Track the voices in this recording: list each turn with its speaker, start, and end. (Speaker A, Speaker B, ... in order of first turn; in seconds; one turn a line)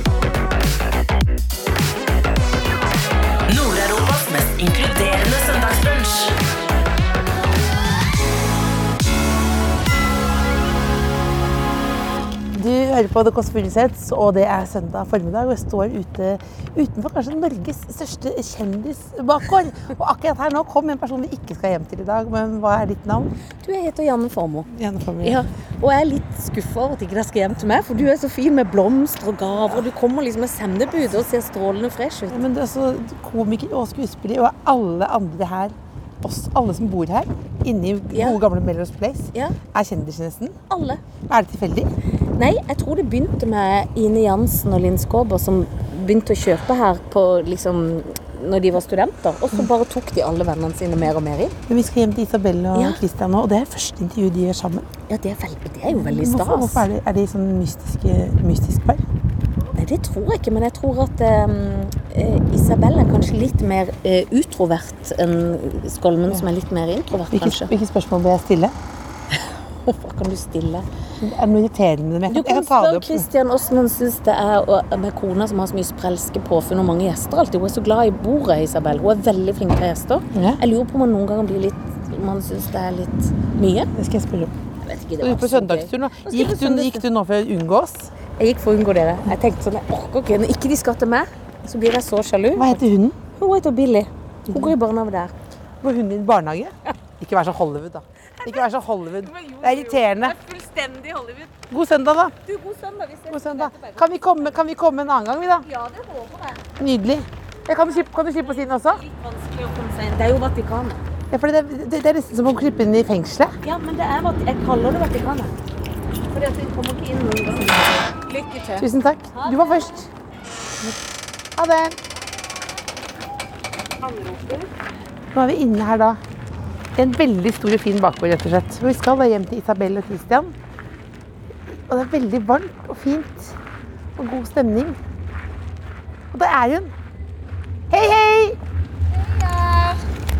Speaker A: 3.5-6.4
Speaker B: 12.5-23.3
Speaker C: 23.6-24.7
Speaker B: 24.7-25.4
Speaker C: 25.2-32.4
Speaker B: 32.3-40.5
Speaker C: 38.1-38.4
Speaker C: 40.7-41.0
Speaker B: 41.3-41.9
Speaker C: 42.4-51.5
Speaker B: 51.7-54.9
Speaker C: 52.7-53.0
Speaker C: 55.1-56.9
Speaker B: 55.9-59.0
Speaker C: 59.7-67.7
Speaker B: 67.3-68.7
Speaker C: 69.3-70.8
Speaker B: 71.2-73.3
Speaker C: 72.3-83.9
Speaker B: 80.3-80.6
Speaker B: 83.9-84.5
Speaker C: 84.8-87.0
Speaker B: 85.2-88.1
Speaker C: 88.4-95.3
Speaker B: 92.5-93.2
Speaker B: 94.5-94.7
Speaker B: 95.8-100.3
Speaker C: 99.2-101.6
Speaker B: 101.7-102.3
Speaker C: 102.4-104.4
Speaker B: 103.3-105.6
Speaker C: 105.6-106.6
Speaker B: 106.8-109.0
Speaker C: 107.7-111.0
Speaker B: 111.3-113.5
Speaker C: 113.6-115.5
Speaker C: 116.3-120.0
Speaker B: 118.8-120.1
Speaker B: 121.6-122.0
Speaker C: 124.0-124.7
Speaker B: 125.3-126.2
Speaker B: 127.0-130.5
Speaker B: 131.9-133.6
Speaker B: 134.2-135.0
Speaker B: 136.3-136.9
Speaker B: 137.9-138.6
Speaker C: 139.4-139.9